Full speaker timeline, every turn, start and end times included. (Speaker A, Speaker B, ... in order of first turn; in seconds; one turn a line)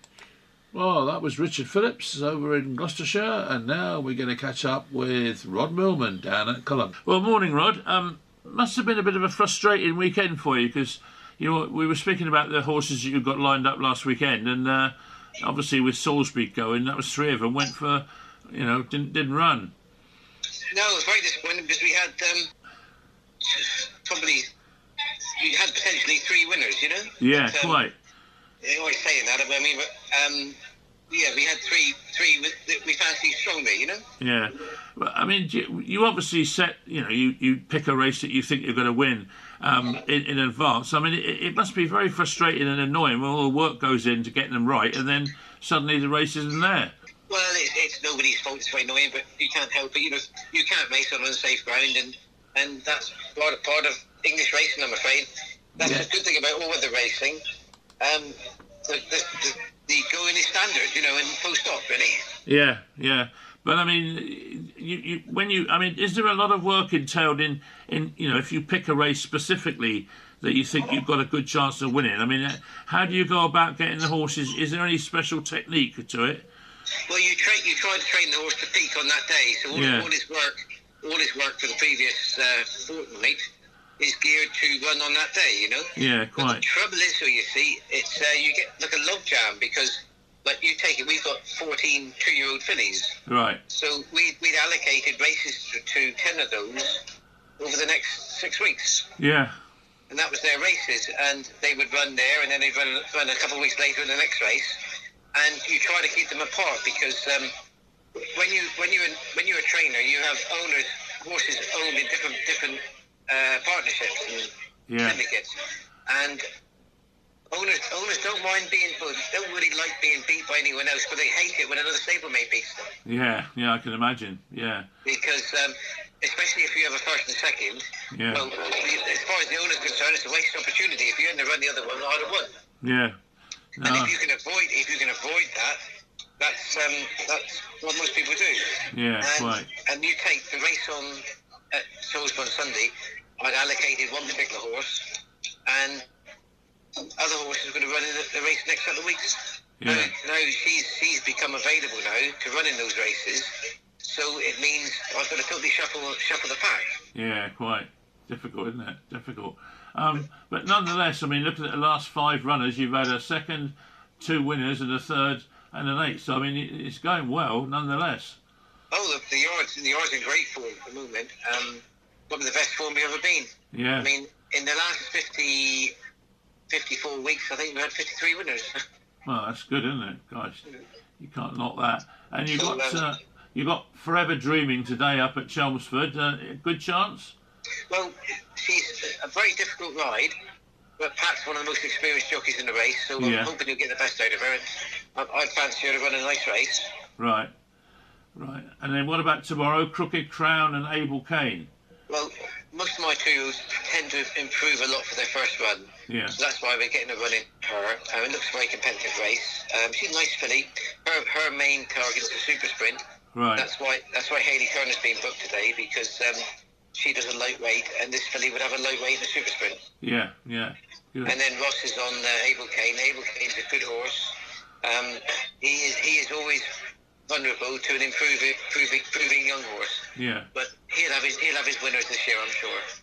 Speaker A: 0.7-19.7
Speaker B: 20.7-22.5
Speaker B: 23.4-24.5
Speaker B: 25.4-27.8
Speaker A: 27.2-27.9
Speaker B: 28.6-30.6
Speaker B: 31.1-34.0
Speaker A: 34.2-46.9
Speaker B: 47.3-55.3
Speaker B: 55.8-57.4
Speaker A: 55.8-56.1
Speaker B: 58.0-58.4
Speaker B: 58.9-62.2
Speaker A: 62.5-76.5
Speaker B: 77.1-83.5
Speaker A: 79.7-80.1
Speaker B: 84.0-93.2
Speaker A: 86.0-86.7
Speaker A: 93.3-93.6
Speaker B: 93.7-97.0
Speaker B: 97.6-99.1
Speaker A: 99.2-99.6
Speaker B: 100.1-104.8
Speaker B: 105.3-107.5
Speaker B: 108.2-115.6
Speaker A: 114.9-115.2
Speaker B: 116.1-116.5
Speaker B: 117.5-122.9
Speaker A: 123.0-124.9
Speaker B: 125.0-132.5
Speaker A: 128.1-128.5
Speaker A: 132.8-133.2
Speaker A: 133.8-134.2
Speaker B: 133.8-135.8
Speaker B: 136.4-141.2
Speaker A: 138.9-139.7
Speaker B: 141.7-145.2
Speaker B: 145.7-146.1
Speaker B: 147.2-153.5
Speaker A: 149.8-150.1
Speaker B: 154.0-156.9
Speaker A: 157.1-168.4
Speaker B: 168.9-175.9
Speaker A: 173.7-174.1
Speaker B: 176.7-178.8
Speaker A: 179.2-180.7
Speaker A: 181.2-187.3
Speaker B: 182.5-183.0
Speaker B: 187.9-190.3
Speaker B: 191.0-196.9
Speaker A: 193.2-193.5
Speaker A: 197.2-197.5
Speaker A: 198.3-201.7
Speaker B: 202.1-213.0
Speaker A: 206.1-206.4
Speaker A: 213.3-213.7
Speaker B: 213.6-216.4
Speaker B: 216.9-219.8
Speaker A: 220.0-221.4
Speaker B: 221.3-226.7
Speaker B: 227.3-232.8
Speaker A: 230.2-230.5